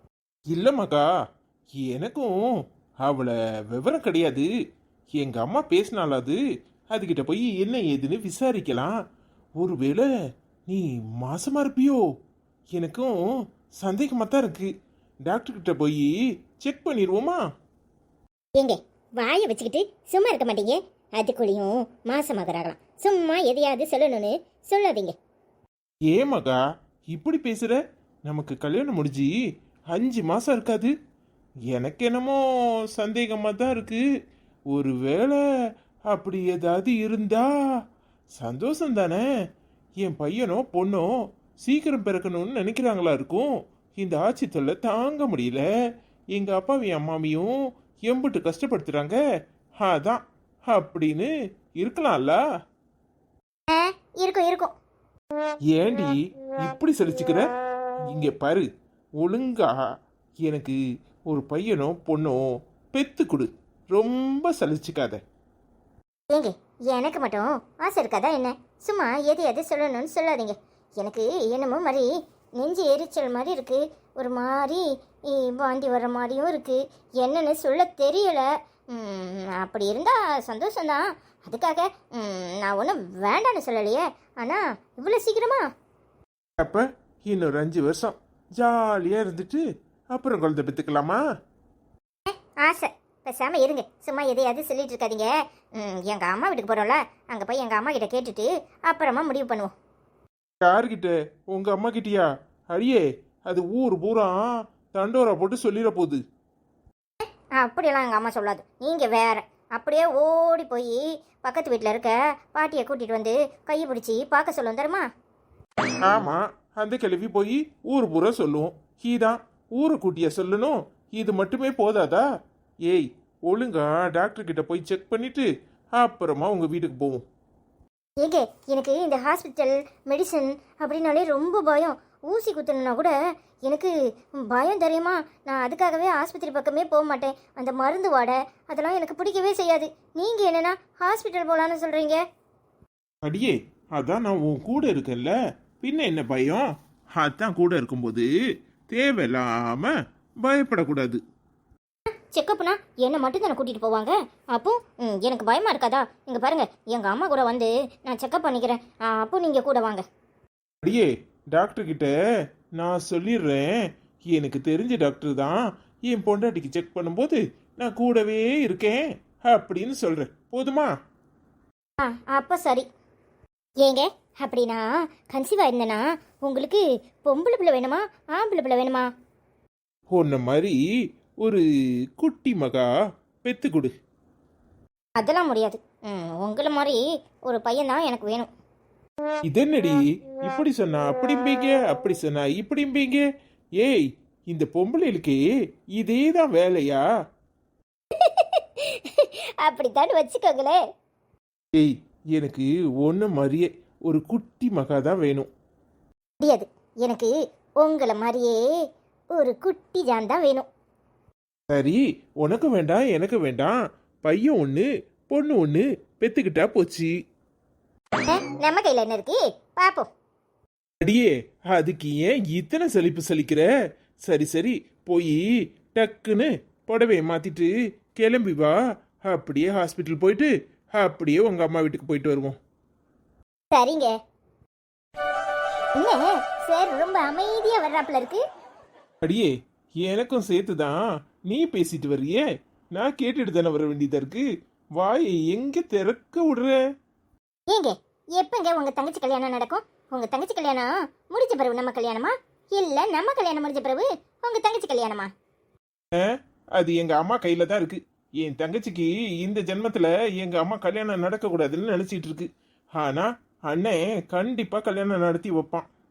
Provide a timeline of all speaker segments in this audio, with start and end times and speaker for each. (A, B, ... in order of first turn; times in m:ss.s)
0:00.5-0:01.0 A
0:01.8-0:02.3 A
0:03.0-0:04.5 A
0:05.2-0:06.4 A
0:06.9-0:08.9 A
0:09.6-0:10.1 A
0:10.7-0:12.0 A
0:12.8-0:13.1 A
0:13.8-0:14.7 A
0:15.3-0:17.4 A
0:18.6-0:25.2 B
0:26.1-0:26.6 A
0:27.1-0:29.3 A
0:29.9-0:30.9 A
0:31.7-0:32.4 A
0:33.0-0:34.0 A
0:34.7-0:35.4 A
0:36.1-0:37.5 A
0:38.4-0:39.3 A
0:40.0-0:45.6 A
0:46.3-0:49.2 A
0:49.8-0:52.4 A
0:53.7-0:54.7 B
0:55.7-0:57.4 A
0:58.1-0:58.7 A
0:59.2-0:59.8 A
1:00.4-1:05.2 A
1:06.3-1:25.7 B
1:26.6-1:29.6 A
1:30.1-1:31.2 A
1:32.3-1:39.7 B
1:40.6-1:44.4 A
1:44.9-1:46.2 A
1:47.6-1:55.1 B
1:56.0-2:02.2 A
2:02.9-2:07.2 A
2:08.2-2:13.1 B
2:13.7-2:22.2 B
2:23.2-2:28.3 A
2:28.9-2:29.9 A
2:30.4-2:31.2 A
2:32.3-2:40.0 B
2:40.8-2:42.1 A
2:42.8-2:50.9 A
2:52.0-2:52.9 B
2:53.8-2:59.1 B
3:00.1-3:00.8 A
3:02.2-3:02.9 A
3:03.4-3:03.9 A
3:05.2-3:08.5 B
3:09.5-3:13.2 A
3:13.8-3:15.4 A
3:16.0-3:17.0 A
3:18.2-3:20.8 B
3:21.8-3:25.5 A
3:26.4-3:28.6 B
3:29.3-3:30.7 B
3:31.7-3:37.1 A
3:38.2-3:40.1 B
3:41.0-3:43.7 A
3:44.2-3:45.4 A
3:45.9-3:52.6 A
3:53.7-3:54.1 B
3:56.0-3:58.4 B
3:59.2-4:02.4 A
4:03.0-4:04.5 A
4:05.0-4:06.8 A
4:07.7-4:15.3 B
4:16.2-4:25.9 A